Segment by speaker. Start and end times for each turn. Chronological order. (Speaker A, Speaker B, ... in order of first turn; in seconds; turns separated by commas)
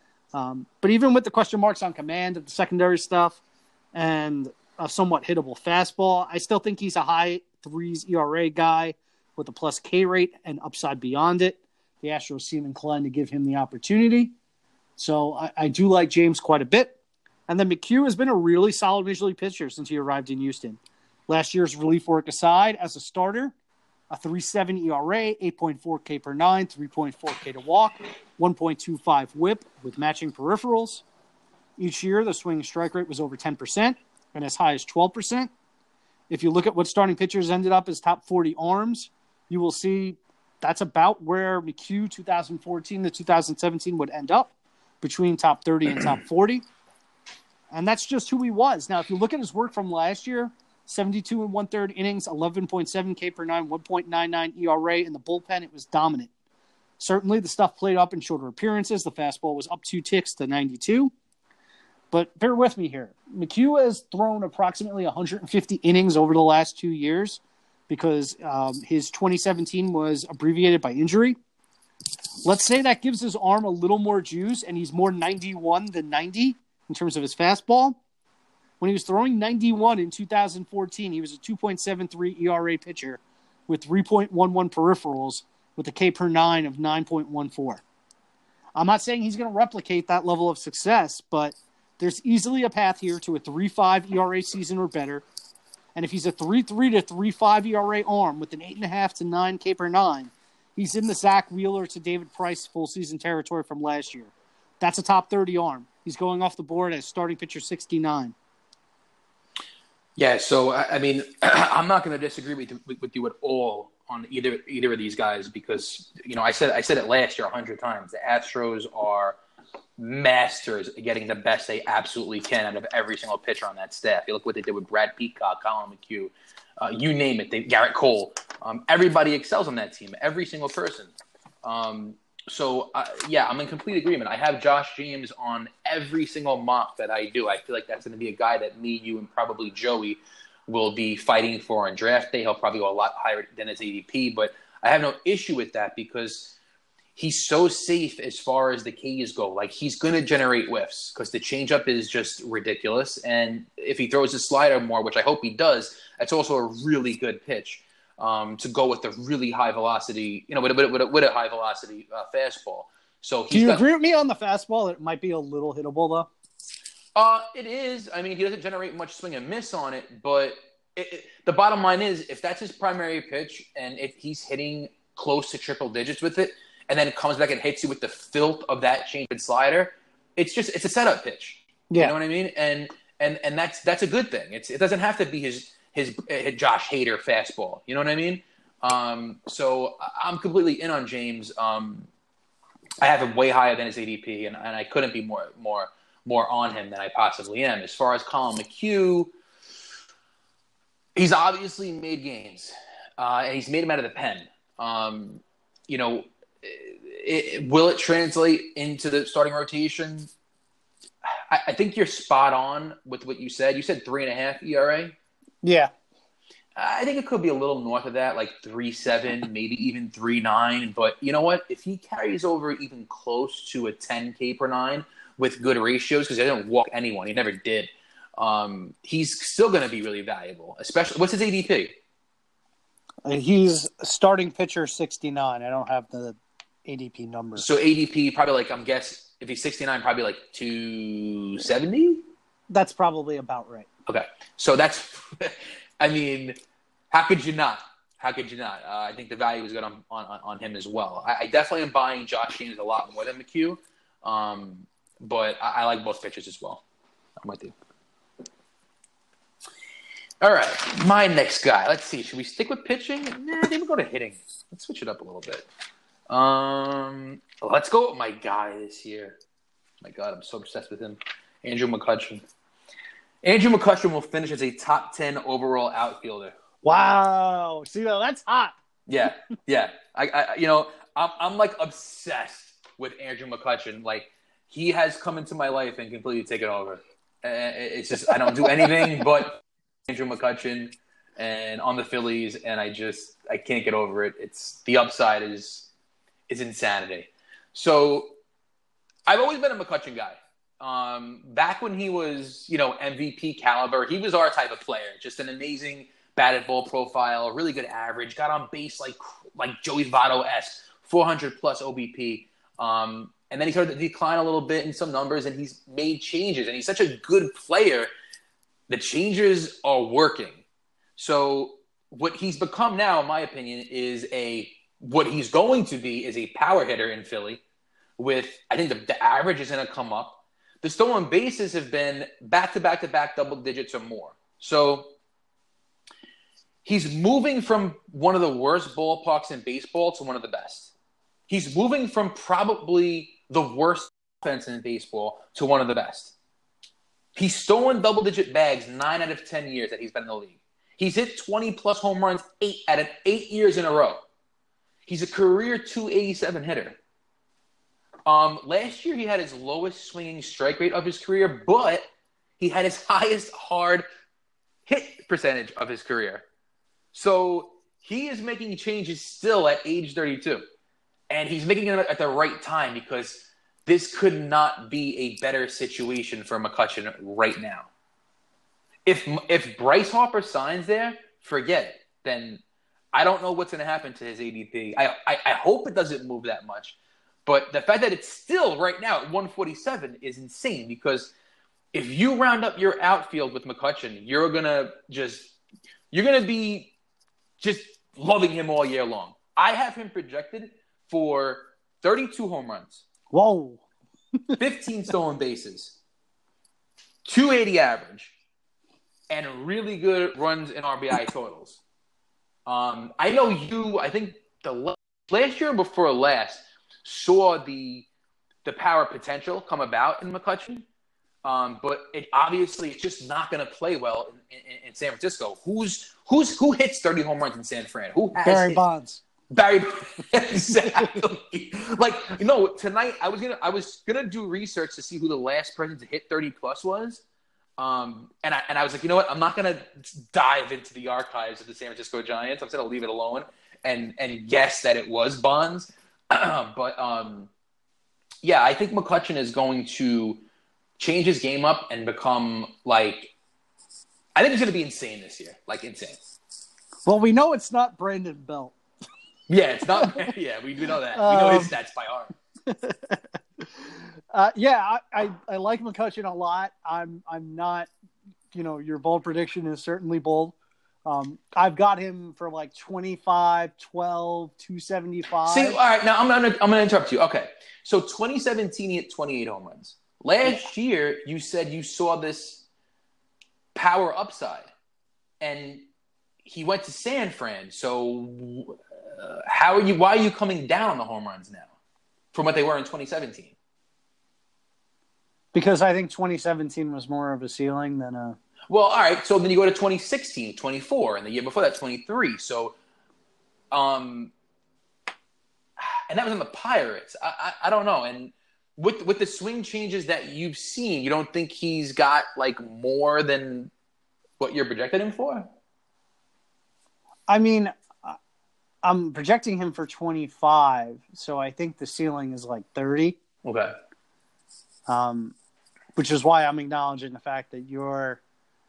Speaker A: 0.3-3.4, Speaker A: 3.9-14.3, Speaker A: 15.0-17.0, Speaker A: 17.5-23.5, Speaker A: 24.1-31.0, Speaker A: 31.8-35.5, Speaker A: 36.3-46.6, Speaker A: 47.7-56.3, Speaker A: 57.0-61.1, Speaker A: 62.1-71.4, Speaker A: 72.5-78.0, Speaker A: 78.8-87.8, Speaker A: 88.8-95.2, Speaker A: 96.0-108.3, Speaker B: 110.2-119.4, Speaker B: 120.0-131.1, Speaker B: 131.6-146.6, Speaker B: 147.2-163.8, Speaker A: 163.5-166.3, Speaker B: 167.2-192.1, Speaker B: 193.0-199.3, Speaker B: 201.2-210.3, Speaker B: 211.3-215.2, Speaker A: 215.6-215.9, Speaker B: 216.8-231.9, Speaker A: 233.2-237.7, Speaker B: 237.6-242.2, Speaker A: 242.7-243.9, Speaker B: 244.1-246.6, Speaker B: 247.1-256.8, Speaker B: 257.4-257.7, Speaker B: 260.4-265.7, Speaker B: 266.3-269.4, Speaker B: 270.0-272.5, Speaker B: 273.4-276.6, Speaker A: 276.8-278.8, Speaker B: 279.1-295.9, Speaker A: 288.6-289.2, Speaker B: 296.5-298.3, Speaker B: 299.3-318.1, Speaker B: 318.9-320.6, Speaker B: 321.2-327.6, Speaker B: 328.2-335.1, Speaker B: 336.9-340.9, Speaker B: 341.5-346.3, Speaker B: 347.4-354.2, Speaker B: 355.1-357.0, Speaker B: 358.3-362.1, Speaker B: 362.6-364.1, Speaker B: 364.9-366.4, Speaker B: 367.1-370.6, Speaker B: 371.3-377.9, Speaker B: 379.1-382.6, Speaker B: 383.1-391.3, Speaker B: 391.9-395.6, Speaker B: 396.1-396.9, Speaker B: 397.6-403.0, Speaker A: 403.3-403.8, Speaker B: 404.6-406.0, Speaker B: 407.2-408.4, Speaker B: 409.3-411.8, Speaker B: 412.7-418.1, Speaker B: 418.6-420.9, Speaker B: 421.4-428.8, Speaker A: 428.4-429.2, Speaker B: 429.5-437.2, Speaker B: 437.8-447.5, Speaker B: 448.4-450.4, Speaker B: 451.0-453.3, Speaker B: 454.4-456.2, Speaker A: 457.1-458.8, Speaker B: 459.5-462.3, Speaker A: 459.9-460.3, Speaker A: 461.1-461.7, Speaker A: 462.7-463.2, Speaker A: 464.3-467.9, Speaker A: 468.5-475.8, Speaker B: 475.5-482.6, Speaker B: 483.7-484.7, Speaker B: 485.4-485.9, Speaker B: 486.4-491.7, Speaker B: 492.3-493.5, Speaker A: 495.5-498.4, Speaker B: 498.7-502.8, Speaker B: 503.7-504.3, Speaker B: 505.8-513.7, Speaker B: 514.4-515.5, Speaker A: 517.3-518.2, Speaker A: 518.8-523.2, Speaker B: 523.4-523.7, Speaker A: 524.9-525.4, Speaker A: 526.0-528.2